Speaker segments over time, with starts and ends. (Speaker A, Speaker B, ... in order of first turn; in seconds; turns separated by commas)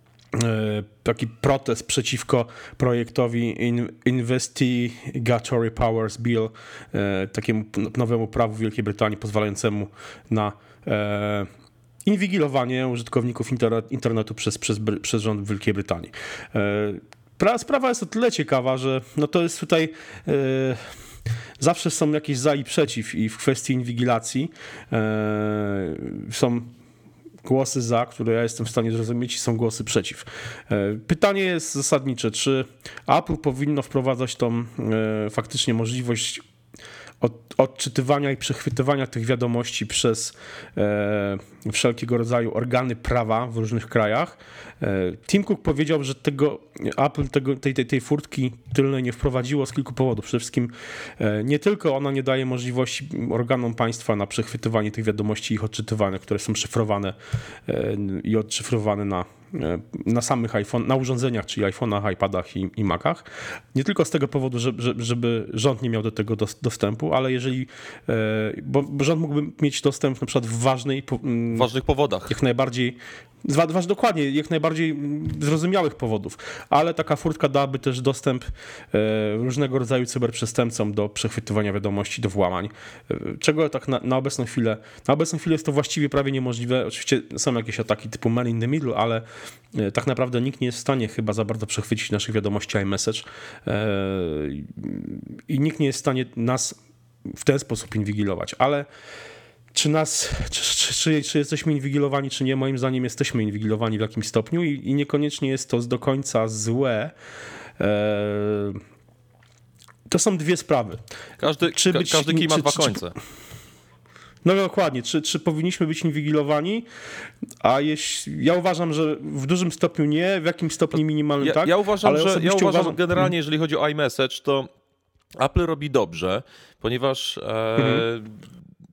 Speaker A: 0.3-11.5, Speaker A: 12.1-20.9, Speaker A: 21.6-26.7, Speaker A: 27.4-36.4, Speaker A: 37.2-71.7, Speaker B: 71.5-72.4, Speaker A: 72.3-96.8, Speaker A: 97.3-98.9, Speaker A: 99.7-107.1, Speaker A: 107.8-108.8, Speaker A: 110.1-111.0, Speaker B: 111.4-113.2, Speaker A: 111.7-113.0, Speaker A: 114.4-116.8, Speaker A: 117.6-123.3, Speaker B: 121.4-124.7, Speaker B: 125.4-128.4, Speaker A: 127.8-128.1